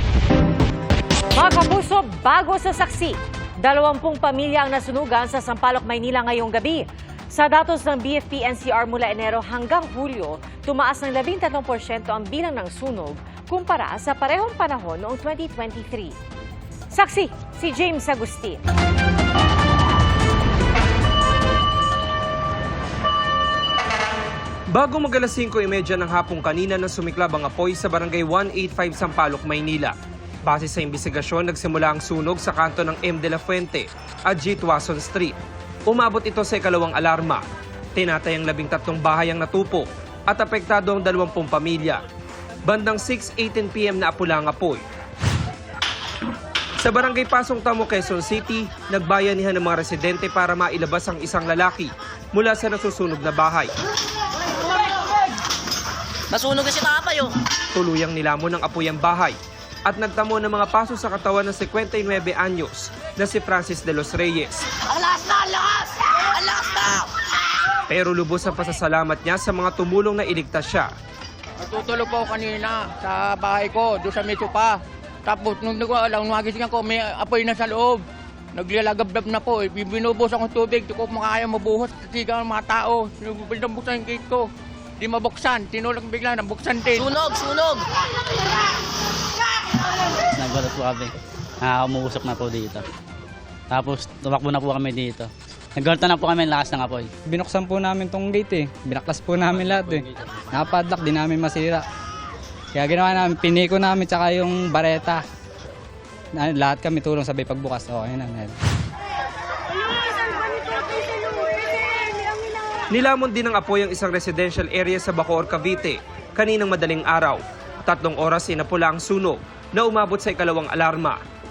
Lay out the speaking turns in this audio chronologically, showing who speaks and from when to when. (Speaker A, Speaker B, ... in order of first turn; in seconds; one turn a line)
Speaker A: 1.3-16.2
Speaker A: 16.9-18.6
Speaker B: 24.7-29.9
Speaker B: 30.4-35.4
Speaker B: 35.9-37.4
Speaker B: 38.0-42.0
Speaker B: 42.6-44.8
Speaker B: 46.8-53.7
Speaker C: 56.3-57.3
Speaker B: 57.7-64.6
Speaker C: 64.9-67.1
Speaker B: 67.9-70.9
Speaker D: 71.6-78.0
Speaker D: 78.5-84.5
Speaker D: 85.0-87.1
Speaker C: 87.0-87.8
Speaker E: 90.4-92.8
Speaker E: 93.7-97.1
Speaker F: 97.3-101.8
Speaker F: 102.8-105.2
Speaker F: 106.3-108.5
Speaker B: 112.9-121.2